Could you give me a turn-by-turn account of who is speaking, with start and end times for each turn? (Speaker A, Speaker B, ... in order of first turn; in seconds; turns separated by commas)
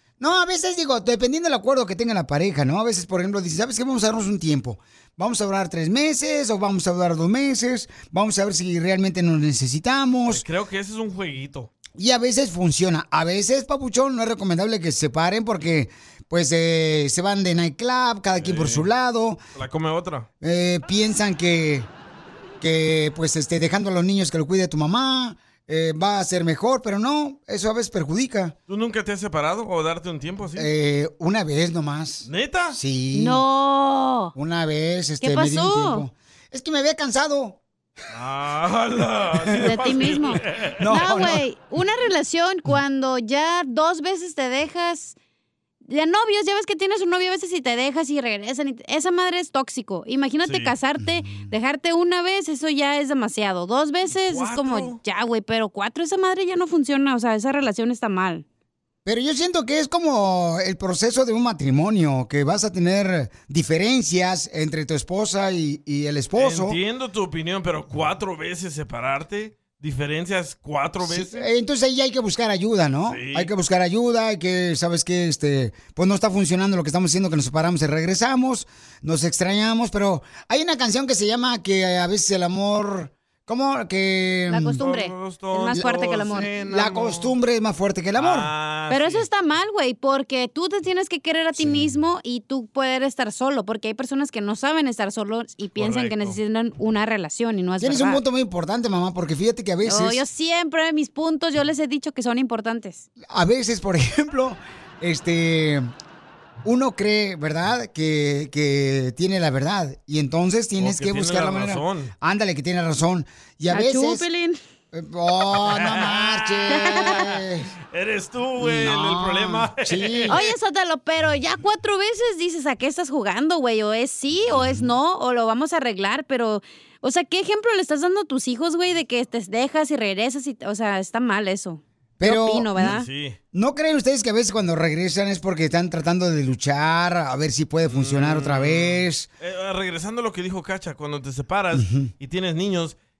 Speaker A: 0.2-10.4, Speaker B: 10.3-11.7, Speaker A: 11.9-19.4, Speaker B: 18.4-18.9, Speaker B: 19.6-20.3, Speaker A: 20.4-21.9, Speaker A: 22.6-28.5, Speaker B: 28.7-30.7, Speaker A: 30.6-33.4, Speaker B: 32.2-32.8, Speaker C: 33.1-34.3, Speaker A: 34.3-37.6, Speaker C: 35.2-36.0, Speaker B: 38.1-41.3, Speaker C: 39.6-45.1, Speaker A: 40.8-41.4, Speaker C: 45.9-58.4, Speaker B: 50.4-50.7, Speaker A: 51.0-51.5, Speaker B: 54.1-55.0, Speaker A: 59.0-66.8, Speaker B: 66.4-71.4, Speaker A: 71.0-84.8, Speaker B: 73.1-73.5, Speaker C: 84.5-86.5, Speaker B: 84.8-87.3, Speaker A: 85.7-88.5, Speaker B: 88.2-89.2, Speaker C: 88.9-98.2, Speaker A: 91.6-92.0, Speaker B: 95.8-96.4, Speaker A: 97.8-100.2, Speaker C: 99.8-103.0, Speaker A: 103.2-105.9, Speaker A: 106.6-114.2, Speaker B: 110.8-112.1, Speaker C: 113.7-114.6, Speaker A: 114.9-117.7, Speaker B: 115.5-117.4, Speaker B: 117.9-120.4, Speaker A: 118.6-120.4, Speaker C: 120.3-133.1, Speaker A: 124.5-124.9, Speaker A: 132.2-132.9, Speaker B: 132.8-133.4, Speaker A: 133.5-139.3, Speaker B: 137.9-142.9, Speaker A: 141.7-142.1